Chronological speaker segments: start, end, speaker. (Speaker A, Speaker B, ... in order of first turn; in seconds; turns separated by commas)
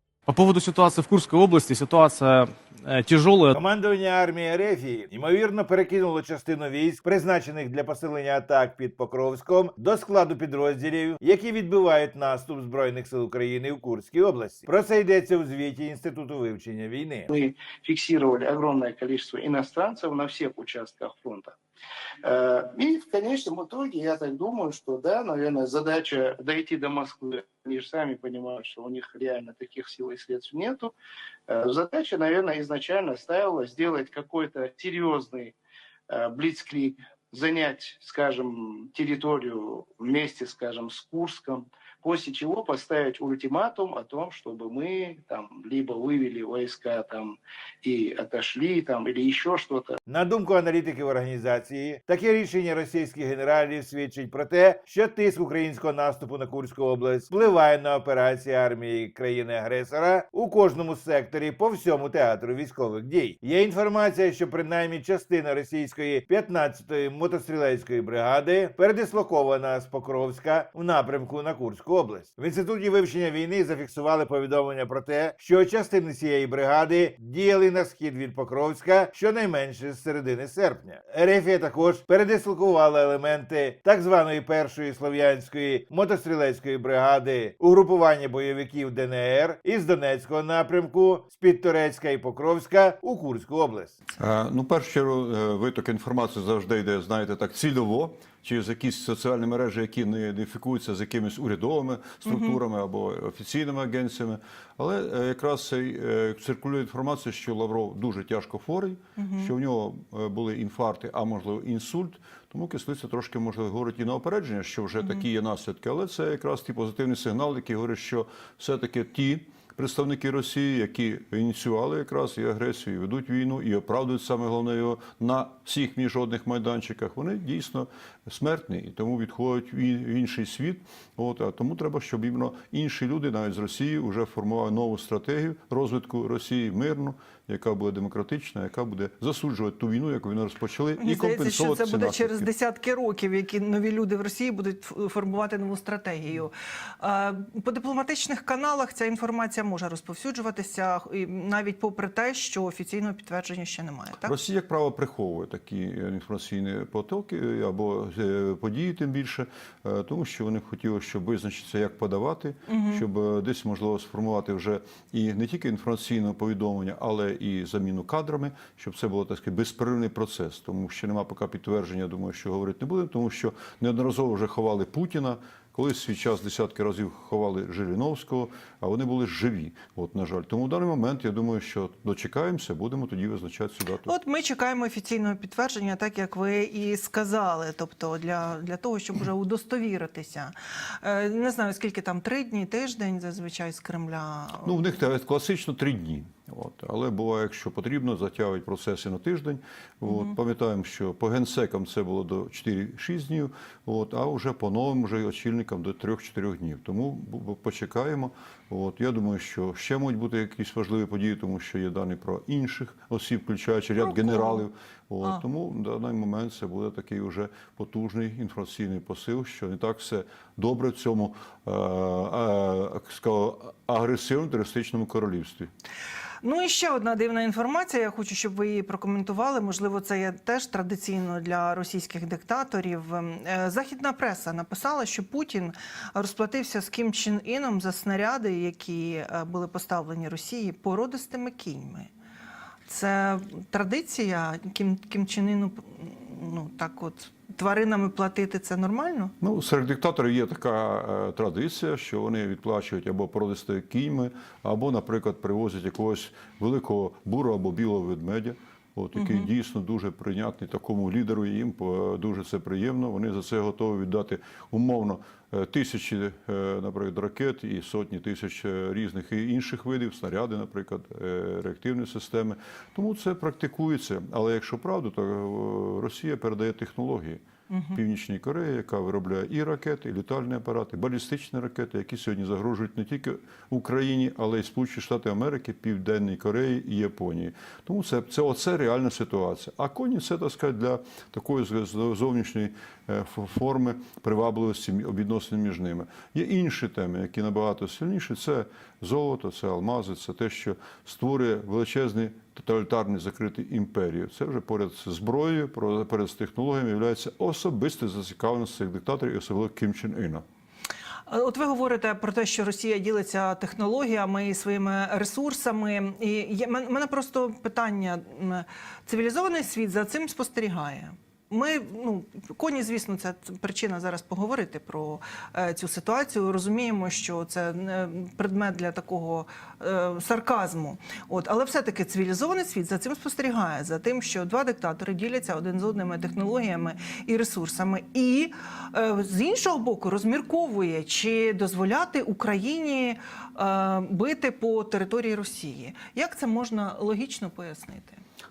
Speaker A: 0.3-3.5, Speaker B: 3.5-17.3, Speaker C: 17.3-21.6, Speaker C: 22.2-30.9, Speaker C: 31.5-35.5, Speaker C: 36.1-49.9, Speaker B: 50.1-93.9, Speaker D: 94.2-142.5, Speaker E: 102.3-102.6, Speaker E: 109.2-109.5, Speaker E: 141.0-154.3, Speaker D: 154.2-184.1, Speaker E: 162.7-163.0, Speaker E: 184.1-194.9, Speaker D: 194.6-225.7, Speaker E: 200.1-200.3, Speaker E: 214.0-214.6, Speaker E: 226.4-242.1, Speaker E: 242.9-249.3, Speaker D: 249.4-277.4, Speaker E: 259.2-259.5, Speaker E: 277.7-278.0, Speaker D: 277.9-310.4, Speaker E: 311.3-348.2